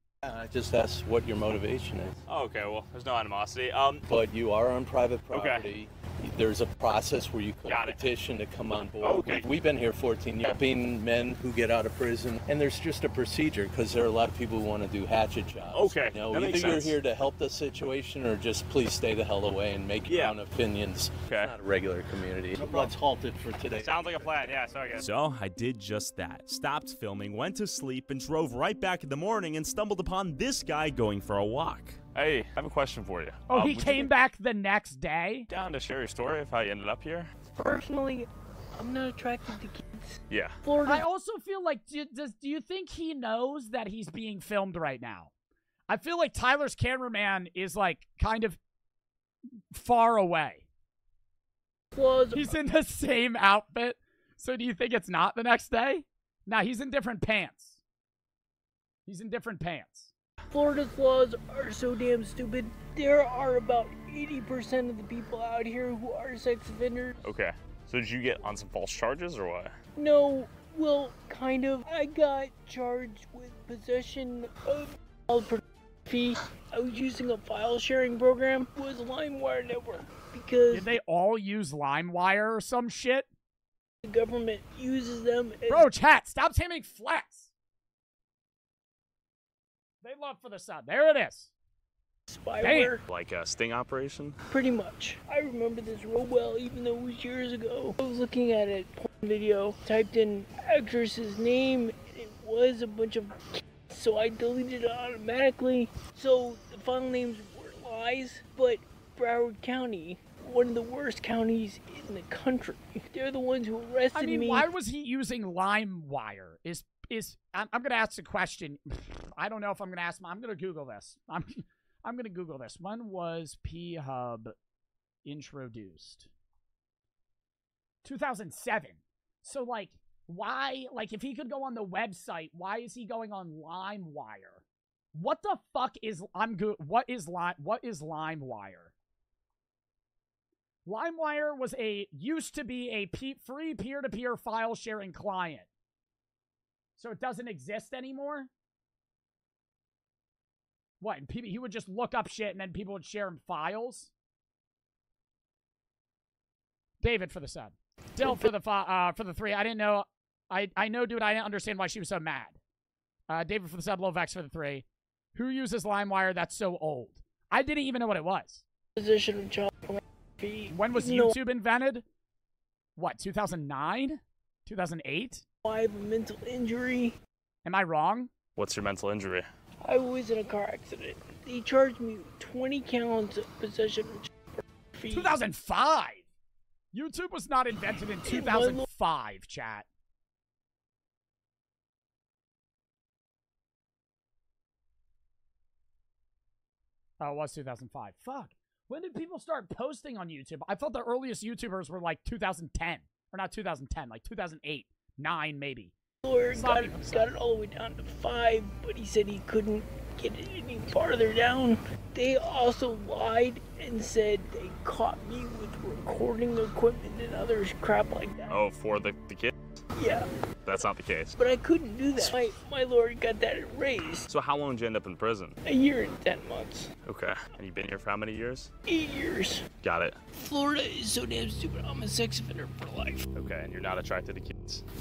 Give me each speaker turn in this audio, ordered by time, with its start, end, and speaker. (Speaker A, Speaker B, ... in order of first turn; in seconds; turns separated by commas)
Speaker A: 0.2-2.2, Speaker B: 2.3-4.0, Speaker A: 4.1-24.2, Speaker B: 5.3-5.7, Speaker B: 7.6-8.0, Speaker B: 8.9-9.5, Speaker B: 15.7-17.0, Speaker B: 20.1-20.4, Speaker B: 21.2-21.6, Speaker B: 23.7-25.1, Speaker C: 25.0-32.0, Speaker B: 32.1-34.1, Speaker D: 33.5-35.5, Speaker B: 35.5-37.3, Speaker E: 37.5-41.0, Speaker B: 40.3-40.6, Speaker D: 40.9-45.3, Speaker D: 45.9-48.6, Speaker D: 49.7-50.6, Speaker E: 51.9-52.5, Speaker D: 52.3-57.8, Speaker D: 59.1-60.1, Speaker E: 60.5-67.2, Speaker B: 67.2-69.7, Speaker E: 70.0-80.9, Speaker D: 80.7-83.3, Speaker E: 84.0-85.9, Speaker D: 85.7-87.5, Speaker D: 90.0-91.5, Speaker E: 92.3-93.0, Speaker D: 92.6-92.9, Speaker B: 93.1-94.4, Speaker E: 94.5-114.7, Speaker D: 114.1-124.5, Speaker D: 125.2-126.3, Speaker D: 128.0-134.6, Speaker D: 135.1-138.9, Speaker D: 140.9-145.7, Speaker D: 147.0-148.5, Speaker D: 151.0-154.1, Speaker D: 157.0-162.6, Speaker D: 163.3-168.6, Speaker E: 168.9-171.4, Speaker D: 170.7-172.0, Speaker D: 173.0-175.4, Speaker E: 175.6-177.2, Speaker D: 177.6-178.3, Speaker B: 178.6-179.5, Speaker E: 179.8-185.4, Speaker D: 185.1-186.2, Speaker D: 186.9-189.9, Speaker E: 188.2-188.9, Speaker D: 197.2-205.9, Speaker E: 206.2-218.6, Speaker D: 206.5-207.3, Speaker B: 218.5-219.5, Speaker E: 219.9-224.3, Speaker B: 220.6-221.3, Speaker B: 224.3-225.6, Speaker E: 225.6-226.9, Speaker B: 227.0-228.7, Speaker E: 228.9-229.7, Speaker B: 229.8-230.2, Speaker E: 230.4-233.2, Speaker B: 233.3-234.8